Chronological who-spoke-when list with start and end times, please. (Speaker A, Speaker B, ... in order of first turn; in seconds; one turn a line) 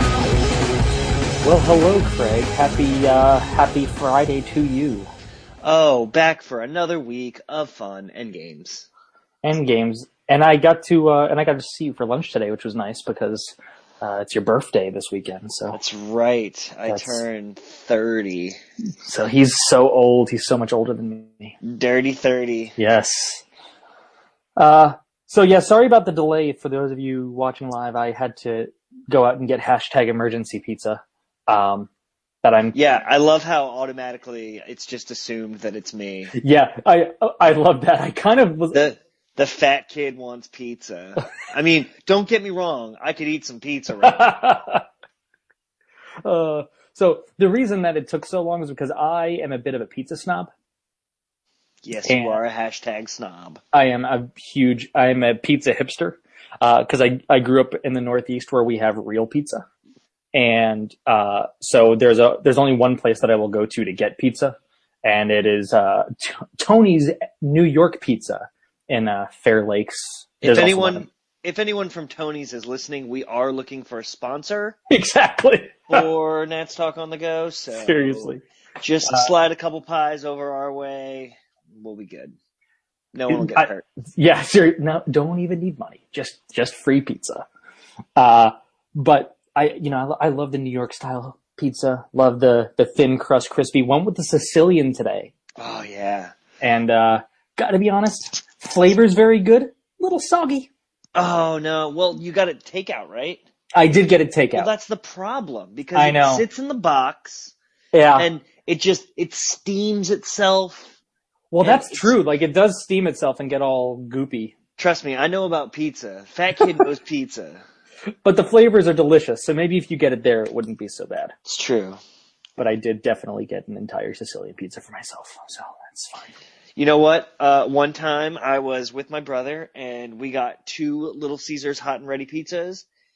Speaker A: 1.4-5.1
Speaker B: 5.6-8.9
Speaker A: 9.4-15.8
Speaker B: 15.7-18.6
Speaker A: 16.9-17.2
Speaker A: 19.1-21.6
Speaker B: 21.6-22.8
Speaker A: 22.8-23.4
Speaker A: 24.6-31.9
Speaker A: 32.4-32.8
Speaker B: 32.8-36.3
Speaker A: 36.3-38.8
Speaker B: 38.7-44.2
Speaker A: 44.0-44.8
Speaker A: 46.2-50.5
Speaker B: 51.8-53.6
Speaker A: 52.1-52.4
Speaker A: 53.7-59.6
Speaker A: 60.3-71.1
Speaker B: 70.4-74.8
Speaker A: 74.9-76.0
Speaker B: 75.9-82.3
Speaker A: 77.7-78.4
Speaker A: 79.0-79.3
Speaker B: 83.1-83.8
Speaker A: 83.3-87.5
Speaker A: 88.2-95.3
Speaker B: 95.6-96.3
Speaker A: 96.6-100.7
Speaker B: 101.2-103.4
Speaker A: 103.8-104.7
Speaker B: 104.5-107.5
Speaker A: 106.0-106.4
Speaker A: 107.9-108.3
Speaker B: 108.2-111.0
Speaker A: 111.5-114.5
Speaker B: 111.6-112.1
Speaker B: 114.8-117.6
Speaker A: 118.2-121.3
Speaker B: 121.5-122.0
Speaker A: 122.6-126.3
Speaker B: 126.8-132.9